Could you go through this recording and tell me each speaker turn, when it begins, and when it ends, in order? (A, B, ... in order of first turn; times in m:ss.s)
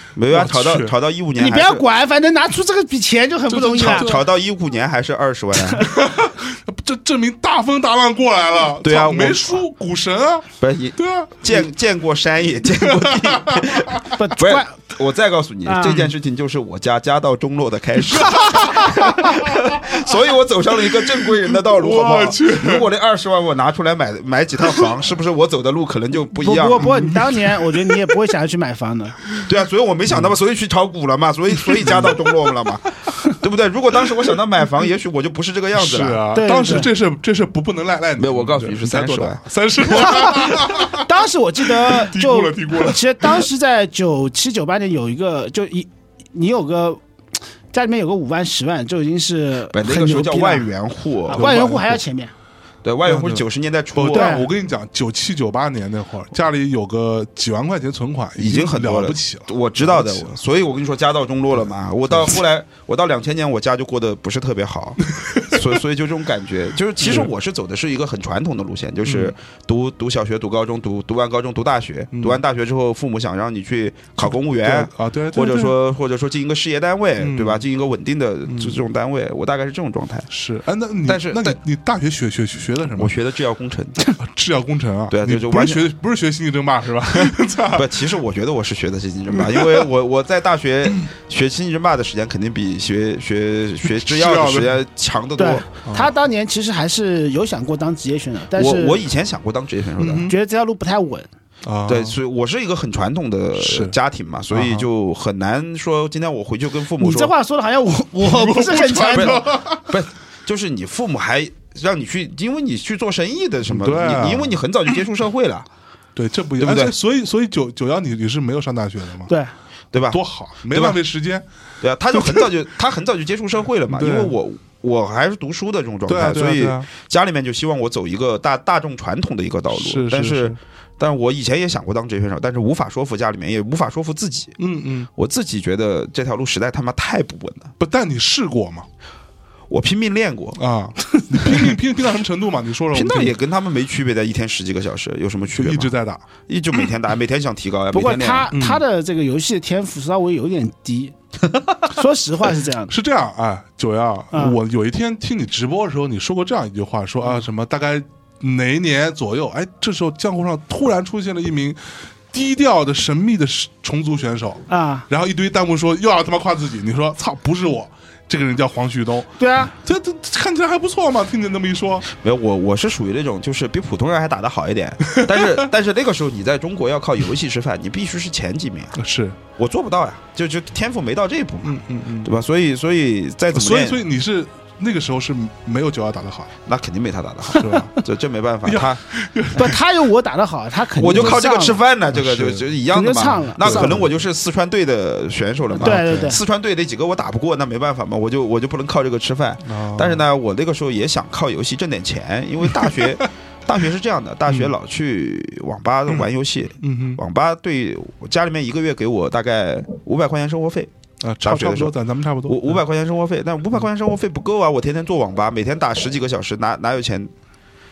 0:00.2-0:01.8 A
0:00.3-0:00.9 B
0:01.4-0:04.1 C
0:03.5-0:04.2 B
0:03.8-0:05.9 A
0:05.8-0:11.6 B
0:08.8-0:09.6 A
0:10.6-0:27.2 A
0:12.7-0:14.2 B
0:14.1-0:14.7 C
0:15.6-0:16.1 C
0:18.1-0:20.1 B
0:20.8-0:22.9 B
0:24.6-0:25.0 B
0:26.4-0:29.2 C
0:26.8-0:28.1 B
0:29.4-0:36.2 A
0:30.1-0:30.3 B
0:31.6-0:32.5 B
0:35.7-0:41.1 B
0:36.3-0:36.9 C
0:38.2-0:40.4 A
0:39.9-0:47.0 C
0:41.6-0:43.4 B
0:47.7-0:50.7 C
0:49.7-0:51.6 A
0:51.3-0:52.3 C
0:51.3-0:52.0 B
0:52.8-0:54.4 A
0:53.0-1:00.3 B
0:54.1-0:54.5 C
0:58.4-1:20.3 A
1:02.1-1:02.4 B
1:05.1-1:05.8 B
1:07.0-1:07.3 B
1:09.0-1:09.3 B
1:12.1-1:12.4 B
1:14.2-1:15.7 B
1:17.2-1:17.6 B
1:18.5-1:18.8 B
1:20.3-1:23.1 B
1:21.0-1:21.6 A
1:22.9-1:24.1 A
1:24.2-1:28.2 B
1:25.1-1:25.8 A
1:27.1-1:35.7 A
1:29.3-1:29.9 B
1:33.8-1:34.8 B
1:35.4-1:39.0 C
1:35.8-1:36.1 B
1:38.5-1:40.3 A
1:40.0-1:40.3 B
1:40.2-1:41.3 C
1:41.6-1:42.2 B
1:41.9-1:47.3 A
1:43.6-1:44.0 B
1:44.5-1:44.9 B
1:47.0-1:49.4 C
1:48.2-1:49.9 B
1:49.1-1:55.6 A
1:53.6-1:54.6 B
1:56.2-1:59.3 B
1:56.6-1:56.9 A
1:59.3-1:59.5 C
1:59.9-2:01.0 A
2:00.1-2:01.4 B
2:01.8-2:14.6 A
2:02.1-2:02.5 B
2:03.9-2:04.4 B
2:06.1-2:06.9 B
2:09.7-2:10.6 B
2:14.6-2:15.1 B
2:15.2-2:17.7 A
2:17.8-2:18.9 B
2:19.7-2:20.6 A
2:20.6-2:23.4 B
2:22.9-2:25.9 A
2:25.6-2:26.2 B
2:26.5-2:28.5 A
2:27.9-2:31.1 C
2:28.5-2:28.8 B
2:31.8-2:32.9 C
2:32.9-2:41.8 B
2:34.3-2:34.6 C
2:42.3-2:52.0 B
2:44.7-2:45.1 C
2:49.4-2:49.7 C
2:52.1-2:59.0 A
2:55.1-2:55.7 B
2:58.9-2:59.4 B
2:59.6-3:04.0 A
3:01.6-3:02.3 B
3:03.5-3:06.5 B
3:06.6-3:09.0 A
3:07.5-3:07.9 B
3:08.6-3:09.8 B
3:09.5-3:11.8 C
3:11.0-3:30.9 A
3:12.1-3:12.7 B
3:12.9-3:14.1 C
3:13.6-3:14.1 B
3:15.8-3:16.4 C
3:15.8-3:16.3 B
3:19.6-3:20.2 B
3:22.7-3:23.2 B
3:24.5-3:24.7 B
3:26.8-3:27.2 B
3:31.2-3:32.8 B
3:31.4-3:37.3 A